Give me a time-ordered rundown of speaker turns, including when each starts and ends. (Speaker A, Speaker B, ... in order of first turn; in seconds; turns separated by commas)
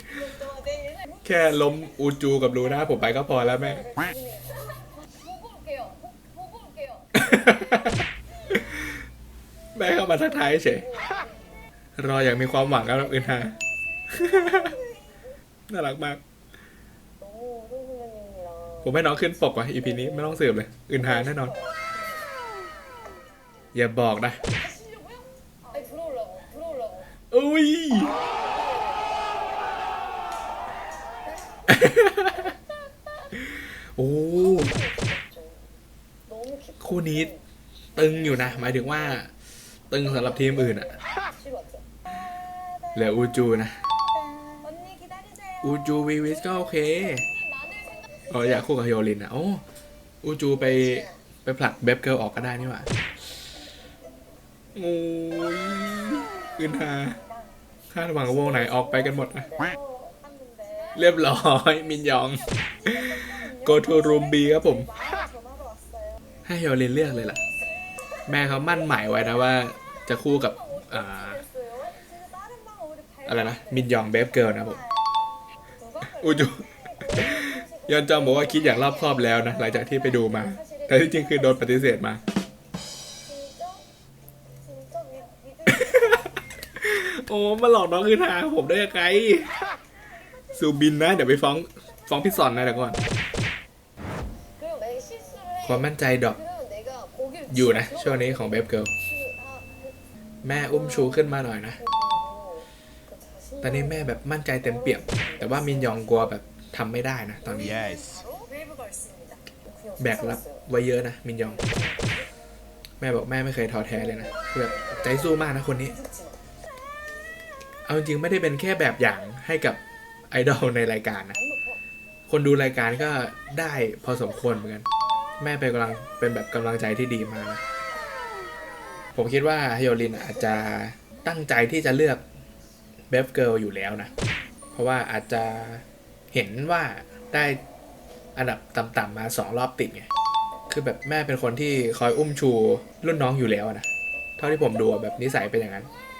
Speaker A: 0.7-1.1, Speaker B: 1.2-3.9, Speaker A: 3.9-7.3, Speaker B: 7.1-9.0, Speaker B: 9.8-10.9, Speaker B: 12.0-13.6, Speaker A: 14.0-15.2, Speaker B: 14.1-14.7, Speaker B: 15.7-16.2, Speaker B: 18.8-21.5, Speaker B: 23.7-24.4, Speaker A: 24.4-26.9, Speaker B: 27.3-28.1, Speaker A: 28.1-29.1, Speaker B: 31.7-32.3, Speaker B: 34.0-34.8, Speaker A: 34.7-35.5, Speaker B: 36.8-37.3, Speaker B: 38.0-39.3, Speaker B: 39.9-41.0, Speaker B: 42.9-43.8, Speaker A: 44.4-45.1, Speaker B: 45.6-47.3, Speaker A: 47.2-48.0, Speaker B: 48.3-49.6, Speaker B: 50.2-52.9, Speaker B: 54.7-57.2, Speaker B: 57.9-59.5, Speaker A: 59.5-61.0, Speaker B: 60.9-64.9, Speaker A: 62.6-63.2, Speaker A: 65.1-65.8, Speaker B: 66.5-67.4, Speaker A: 67.6-68.3, Speaker B: 68.3-71.4, Speaker A: 71.7-72.9, Speaker B: 73.2-74.8, Speaker A: 75.9-77.9, Speaker B: 76.2-82.2, Speaker A: 83.2-83.8, Speaker A: 84.7-86.3, Speaker B: 85.7-89.5, Speaker B: 90.5-93.0, Speaker A: 94.6-95.6, Speaker B: 95.6-96.4, Speaker B: 97.5-98.9, Speaker B: 100.4-101.8, Speaker B: 103.6-107.9, Speaker A: 107.7-109.0, Speaker B: 110.0-111.6, Speaker B: 113.0-116.0, Speaker B: 117.8-119.8, Speaker B: 120.3-121.4, Speaker B: 122.3-124.8, Speaker B: 125.4-127.6, Speaker A: 128.0-129.1, Speaker B: 129.1-132.2, Speaker B: 133.1-134.1, Speaker A: 134.1-134.6, Speaker B: 134.7-137.6, Speaker B: 138.3-140.1, Speaker B: 140.7-143.9, Speaker B: 144.4-145.9